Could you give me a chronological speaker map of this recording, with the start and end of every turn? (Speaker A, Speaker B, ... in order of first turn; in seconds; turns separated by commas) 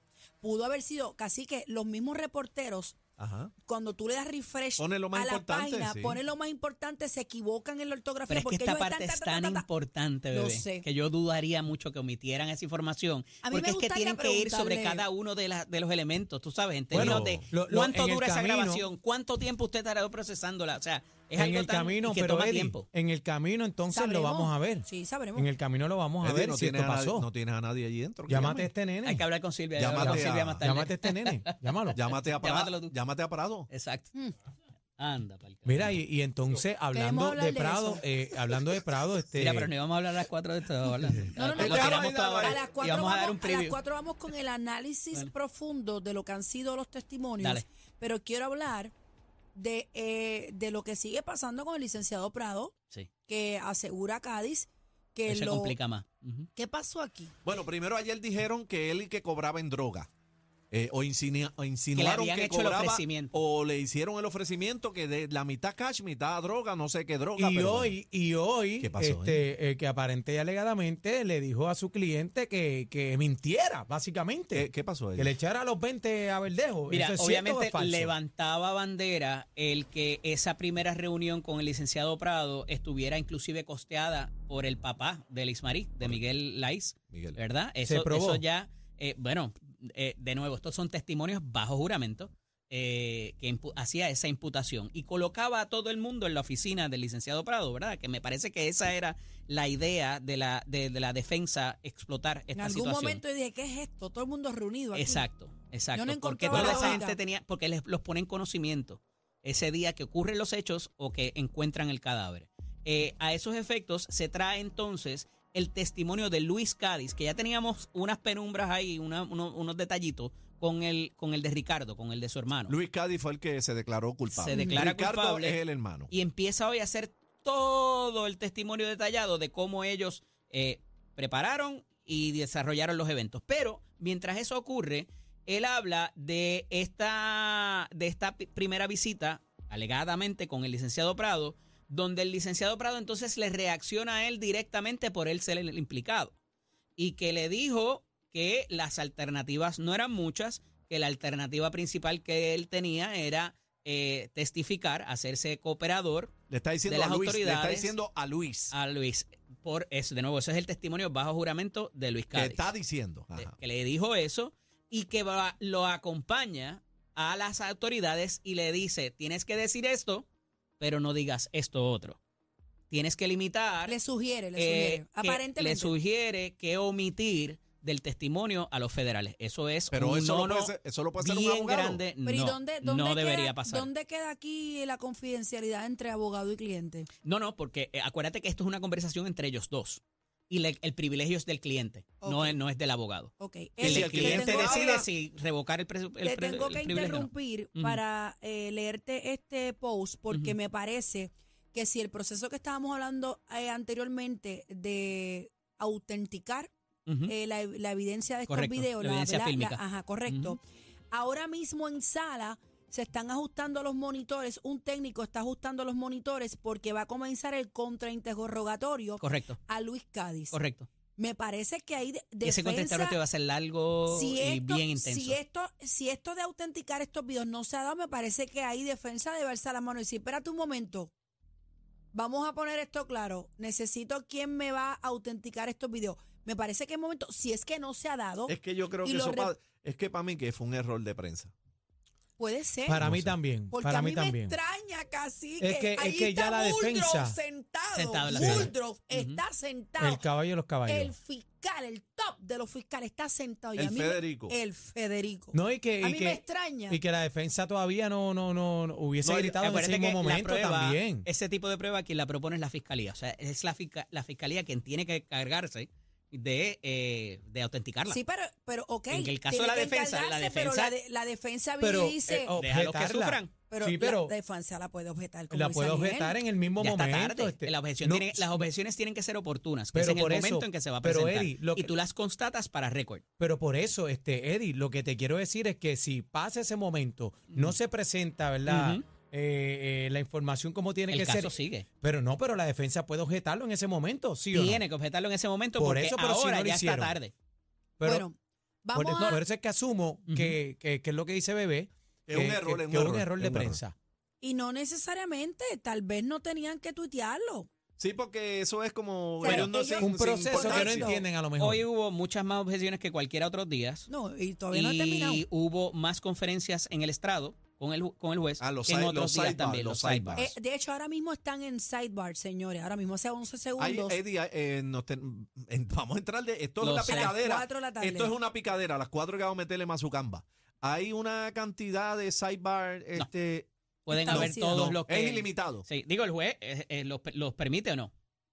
Speaker A: 0.4-3.0, Speaker B: 3.2-3.5, Speaker A: 3.6-9.7, Speaker B: 4.8-6.2, Speaker C: 8.3-22.9, Speaker A: 10.3-10.9, Speaker A: 13.4-15.1, Speaker B: 16.9-17.4, Speaker D: 16.9-18.8, Speaker D: 21.4-27.3, Speaker A: 23.9-25.5, Speaker B: 26.2-28.7, Speaker D: 28.3-29.3, Speaker C: 29.0-31.6, Speaker B: 29.8-30.6, Speaker D: 29.8-32.0, Speaker B: 31.9-33.7, Speaker C: 32.1-32.9, Speaker C: 33.7-34.1, Speaker C: 35.0-36.0, Speaker D: 35.6-39.7, Speaker A: 36.9-38.0, Speaker C: 39.4-43.8, Speaker A: 41.3-48.9, Speaker B: 41.4-42.6, Speaker C: 47.4-47.6, Speaker A: 49.5-52.7, Speaker A: 53.3-55.8, Speaker C: 55.3-56.5, Speaker A: 56.6-57.3, Speaker B: 57.5-60.1, Speaker B: 60.7-68.0, Speaker C: 62.0-63.3, Speaker D: 67.4-78.1, Speaker B: 68.8-69.4, Speaker B: 74.5-75.3, Speaker C: 76.9-103.2, Speaker B: 87.1-87.4, Speaker D: 87.8-88.4, Speaker A: 102.5-105.3, Speaker C: 104.9-122.8, Speaker A: 105.9-107.2, Speaker B: 106.5-107.0, Speaker B: 122.7-126.1, Speaker C: 124.3-146.3, Speaker A: 124.5-124.9, Speaker C: 147.0-156.3, Speaker B: 156.5-158.7, Speaker C: 156.9-157.9, Speaker C: 158.7-162.7, Speaker B: 162.3-163.5, Speaker C: 163.4-170.2, Speaker C: 170.8-172.2, Speaker C: 172.9-174.0, Speaker A: 173.8-175.9, Speaker C: 174.6-183.9, Speaker B: 179.9-182.0, Speaker A: 182.2-187.1, Speaker C: 187.2-198.0, Speaker A: 192.2-192.6, Speaker A: 193.4-195.1, Speaker B: 193.8-195.1, Speaker A: 196.2-206.7, Speaker C: 207.1-207.3, Speaker A: 207.3-210.6, Speaker C: 208.5-210.6, Speaker A: 211.1-220.6, Speaker C: 219.2-219.6, Speaker C: 220.5-220.9, Speaker A: 221.2-223.2, Speaker C: 222.4-225.4, Speaker A: 224.1-231.1, Speaker A: 232.1-239.5, Speaker B: 238.5-241.5, Speaker A: 242.4-243.1, Speaker D: 242.9-244.6, Speaker B: 242.9-243.4, Speaker A: 243.7-250.2, Speaker D: 245.6-247.4, Speaker C: 247.9-249.4, Speaker D: 248.3-248.7, Speaker D: 250.0-251.1, Speaker A: 250.9-257.0, Speaker B: 253.8-254.5, Speaker D: 255.5-261.3, Speaker B: 259.2-259.6, Speaker C: 259.6-268.2, Speaker A: 268.1-272.6, Speaker C: 269.1-270.9, Speaker D: 271.8-274.3, Speaker C: 272.6-273.5, Speaker A: 273.7-276.4, Speaker D: 275.5-278.7, Speaker C: 276.8-283.2, Speaker D: 279.9-281.9, Speaker D: 283.4-294.8, Speaker C: 288.7-289.0, Speaker C: 291.1-291.9, Speaker C: 294.5-297.3, Speaker D: 295.8-297.2, Speaker D: 298.0-298.3, Speaker A: 298.0-299.4, Speaker D: 298.9-303.9, Speaker C: 300.3-300.6, Speaker B: 302.3-303.8, Speaker A: 304.4-307.7, Speaker B: 308.0-311.2, Speaker A: 309.4-311.3, Speaker D: 309.5-311.8, Speaker C: 311.6-314.1, Speaker A: 314.1-315.4, Speaker C: 314.7-320.5, Speaker B: 318.6-320.5, Speaker A: 320.4-324.2, Speaker B: 323.8-335.9, Speaker C: 326.8-327.4, Speaker A: 327.1-328.4, Speaker C: 334.1-338.1, Speaker A: 334.1-334.9